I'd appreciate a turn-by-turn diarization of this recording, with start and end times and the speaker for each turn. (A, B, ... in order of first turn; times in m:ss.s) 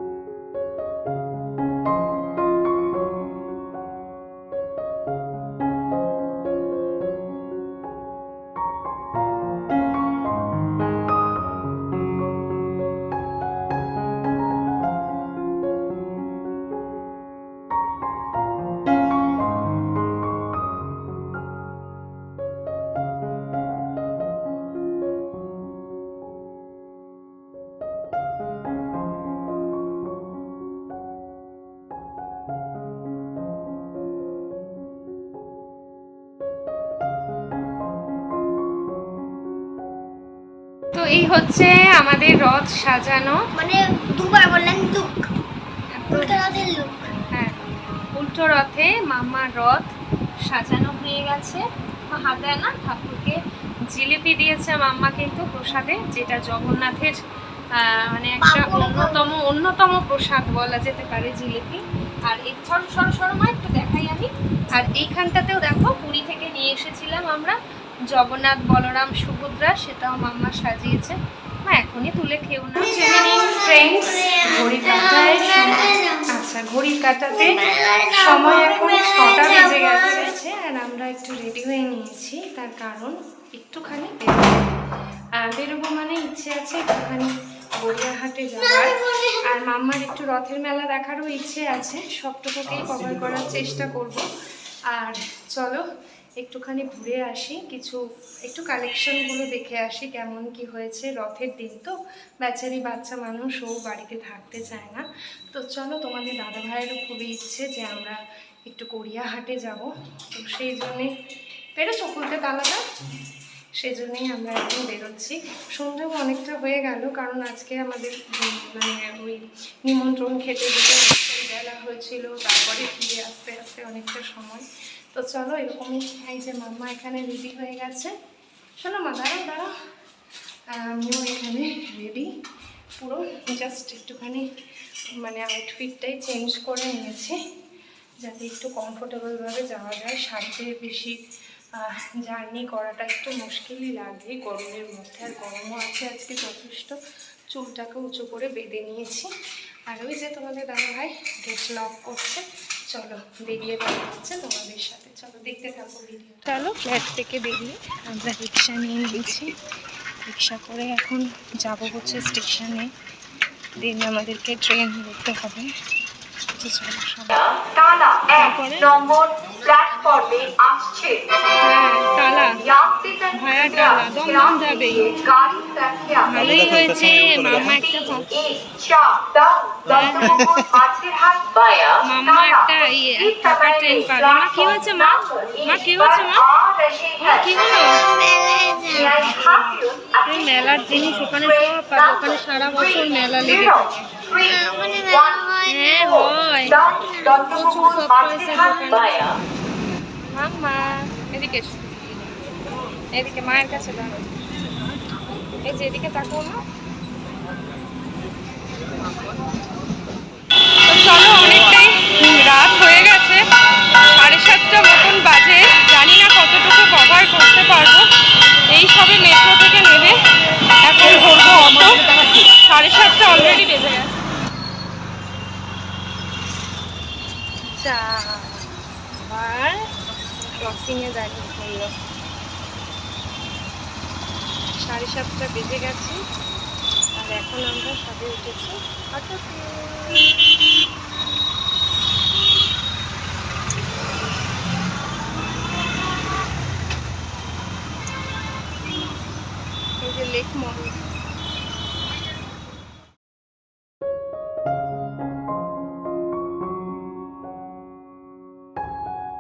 0:40.9-0:43.5 A
0:43.6-0:45.2 B
0:46.0-0:46.4 A
0:46.1-0:47.1 B
0:47.3-0:49.9 A
0:50.5-0:53.4 A
0:53.9-0:57.2 A
0:57.8-1:07.6 A
0:58.4-0:59.1 B
1:08.1-1:24.8 A
1:13.3-1:16.2 B
1:17.4-1:20.3 B
1:25.4-1:34.3 A
1:34.9-1:35.8 A
1:36.4-1:51.1 A
1:51.8-1:52.8 A
1:53.8-2:08.1 A
2:08.8-2:09.7 A
2:10.8-2:12.3 A
2:13.0-2:14.5 A
2:15.2-2:17.4 A
2:18.2-2:21.2 A
2:21.8-2:27.0 A
2:27.5-2:29.3 A
2:29.9-2:39.6 A
2:40.3-2:42.9 A
2:43.8-2:45.7 A
2:46.6-2:50.2 A
2:50.0-2:51.0 C
2:51.6-2:55.6 A
2:56.2-2:58.5 A
2:59.0-2:59.8 C
2:59.8-3:00.7 A
3:00.6-3:01.9 C
3:02.0-3:06.6 A
3:07.2-3:08.1 A
3:08.3-3:09.0 B
3:08.8-3:14.2 A
3:14.3-3:15.8 B
3:15.6-3:19.3 A
3:20.3-3:22.4 A
3:23.1-3:24.3 A
3:25.6-3:26.6 A
3:30.8-3:33.4 A
3:34.0-3:38.1 A
3:38.7-3:40.2 A
3:40.8-3:44.2 A
3:47.7-3:49.9 A
3:50.5-3:51.9 A
3:54.8-3:56.2 A
3:57.2-4:00.2 A
4:10.0-4:11.0 A